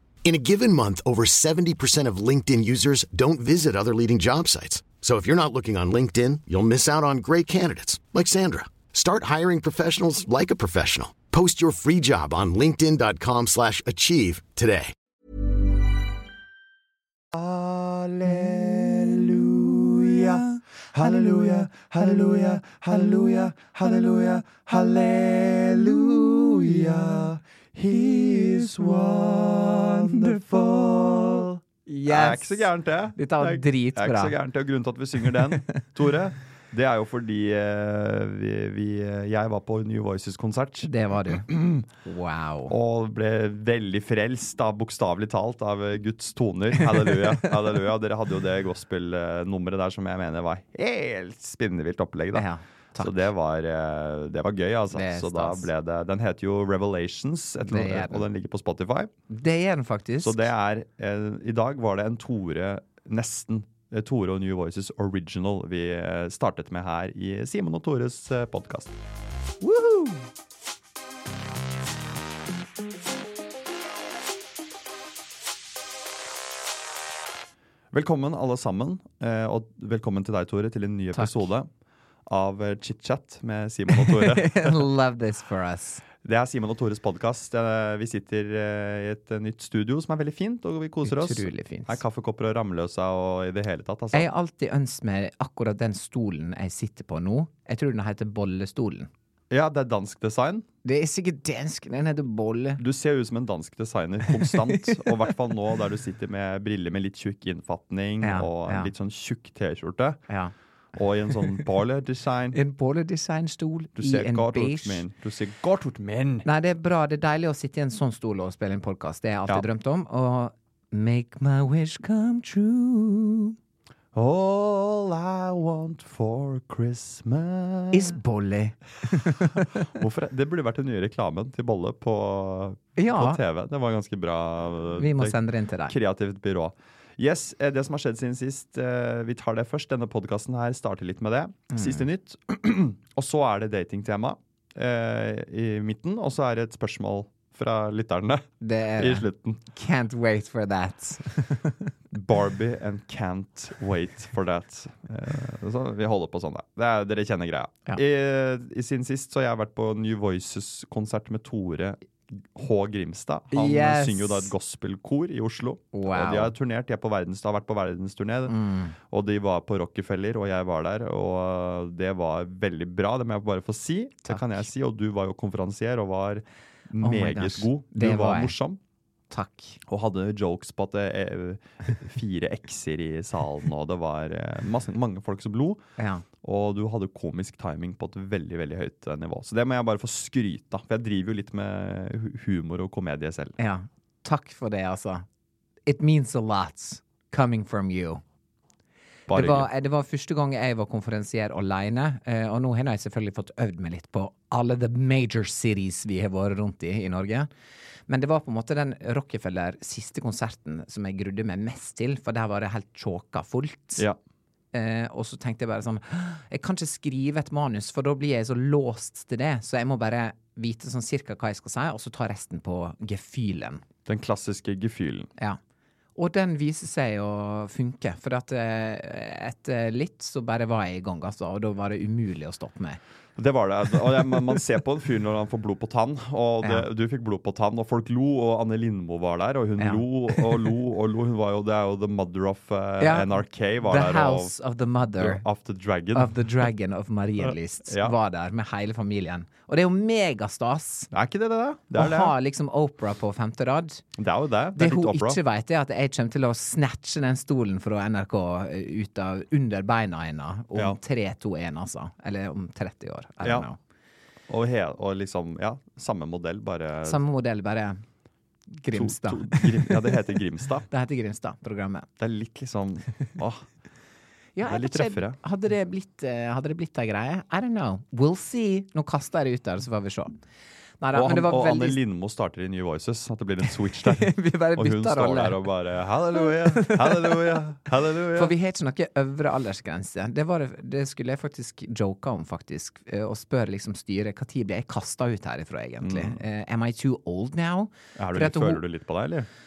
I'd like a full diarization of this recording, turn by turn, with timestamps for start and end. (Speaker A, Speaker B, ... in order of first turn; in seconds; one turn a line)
Speaker A: 0.2-14.9
Speaker B: 17.3-41.9
Speaker C: 31.9-34.3
Speaker C: 35.4-35.8
Speaker C: 40.8-42.8
Speaker B: 42.7-52.5
Speaker C: 46.8-47.5
Speaker C: 52.3-53.2
Speaker B: 53.0-59.1
Speaker C: 54.9-55.7
Speaker C: 57.7-58.3
Speaker C: 59.3-60.4
Speaker B: 60.2-68.9
Speaker C: 69.6-70.2
Speaker B: 77.9-81.7
Speaker C: 81.1-81.4
Speaker B: 82.2-84.8
Speaker C: 83.9-86.0
Speaker B: 86.2-94.3
Speaker C: 91.0-92.0
Speaker C: 94.1-99.1
Speaker B: 99.5-100.7
Speaker C: 100.8-102.8
Speaker B: 102.8-110.2
Speaker C: 104.3-105.3
Speaker C: 108.2-108.9
Speaker B: 111.0-112.6
Speaker C: 112.5-115.0
Speaker B: 114.0-116.5
Speaker C: 116.5-123.5
Speaker B: 124.1-128.2
Speaker C: 127.9-129.8
Speaker B: 129.4-149.6
Speaker C: 133.0-133.4
Speaker C: 135.0-136.0
Speaker C: 141.7-142.0
Speaker C: 148.6-151.9
Speaker B: 152.1-178.8
Speaker C: 163.5-164.5
Speaker C: 165.9-166.5
Speaker C: 168.5-169.0
Speaker C: 174.3-174.6
Speaker C: 177.0-178.5
Speaker C: 179.3-179.8
Speaker B: 179.9-185.8
Speaker C: 186.0-186.2
Speaker B: 186.4-193.6
Speaker C: 193.6-195.3
Speaker C: 195.9-198.2
Speaker B: 199.3-199.7
Speaker C: 199.3-207.5
Speaker C: 208.1-214.1
Speaker C: 214.7-223.8
Speaker B: 224.1-225.3
Speaker C: 226.2-233.0
Speaker B: 233.4-244.6
Speaker C: 239.8-240.6
Speaker C: 243.0-245.4
Speaker B: 245.2-246.7
Speaker C: 246.1-251.1
Speaker B: 247.4-248.2
Speaker B: 251.1-252.3
Speaker C: 251.9-254.0
Speaker B: 254.2-255.4
Speaker C: 254.8-263.8
Speaker B: 263.4-263.7
Speaker B: 264.5-267.2
Speaker C: 267.1-268.0
Speaker C: 268.7-270.1
Speaker B: 268.9-270.9
Speaker C: 270.9-272.1
Speaker B: 272.2-273.6
Speaker C: 274.6-280.4
Speaker B: 274.6-275.4
Speaker C: 281.0-282.0
Speaker B: 281.1-288.5
Speaker C: 284.0-285.6
Speaker C: 286.4-287.6
Speaker C: 288.3-298.8
Speaker B: 296.0-296.4
Speaker B: 298.2-299.5